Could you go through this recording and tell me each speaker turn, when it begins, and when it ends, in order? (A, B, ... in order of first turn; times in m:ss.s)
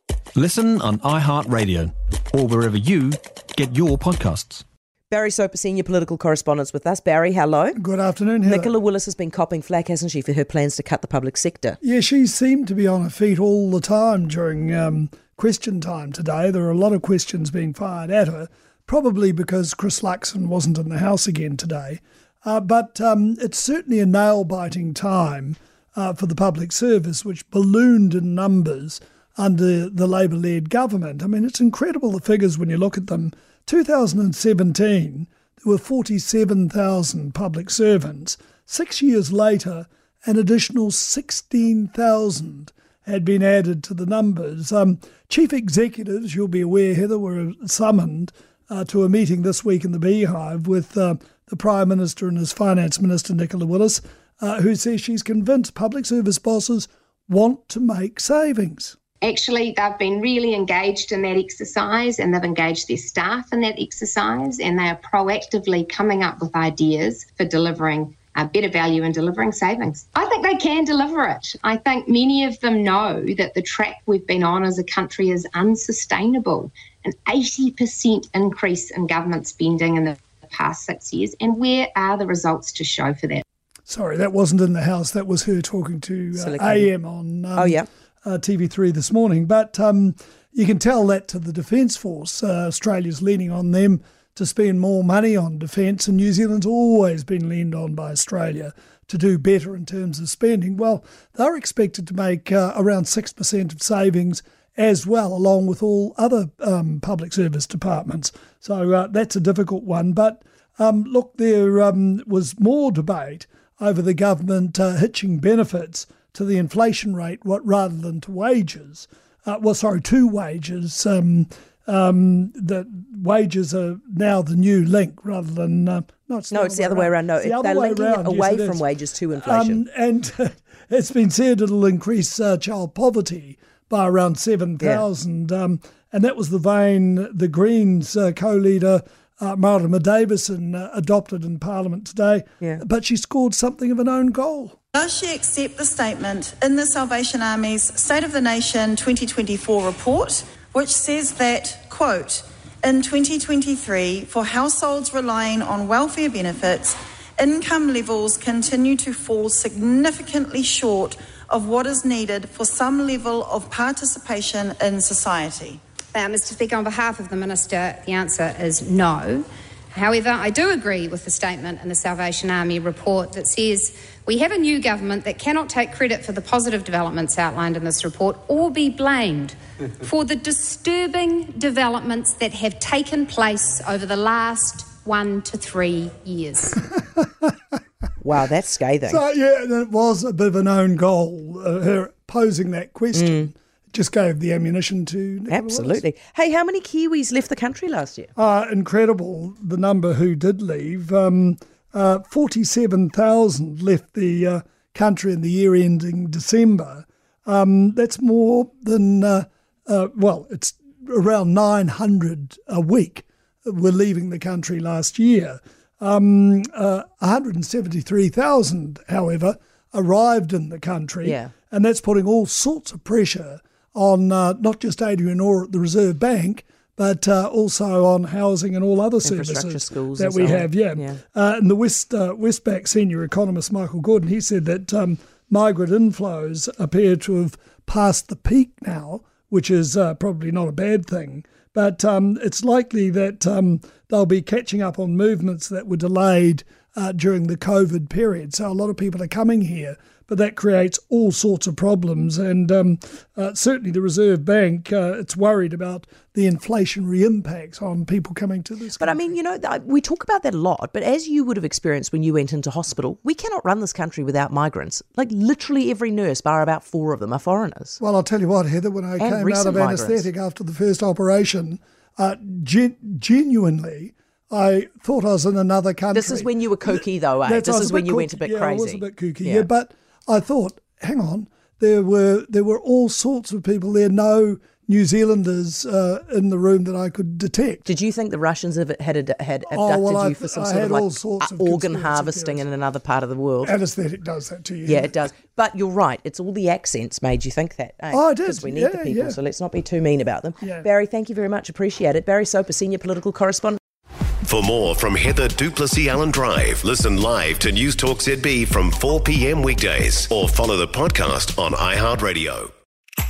0:00.3-0:04.6 A
0:05.1-0:07.8 B
0:07.8-0:08.7 C
0:08.4-0:11.8 B
0:11.8-0:58.9 C
0:59.2-1:23.4 D
1:23.9-2:24.8 C
1:26.4-1:26.9 B
1:27.6-1:27.9 B
2:06.5-2:09.8 B
2:14.8-2:15.0 B
2:24.9-2:45.8 E
2:46.1-3:06.8 F
3:08.2-3:09.2 B
3:09.0-3:16.0 C
3:13.1-3:13.4 B
3:15.5-3:18.3 B
3:18.4-4:19.3 C
3:41.2-3:41.5 B
3:49.2-3:51.2 B
4:19.0-4:28.0 B
4:28.0-4:47.8 C
4:29.2-4:30.3 B
4:36.1-4:39.7 B
4:47.8-4:53.7 B
4:49.7-4:52.6 C
4:53.6-4:55.2 C
4:54.8-5:03.8 B
4:58.1-4:59.4 C
5:00.6-5:00.9 C
5:04.4-5:12.7 G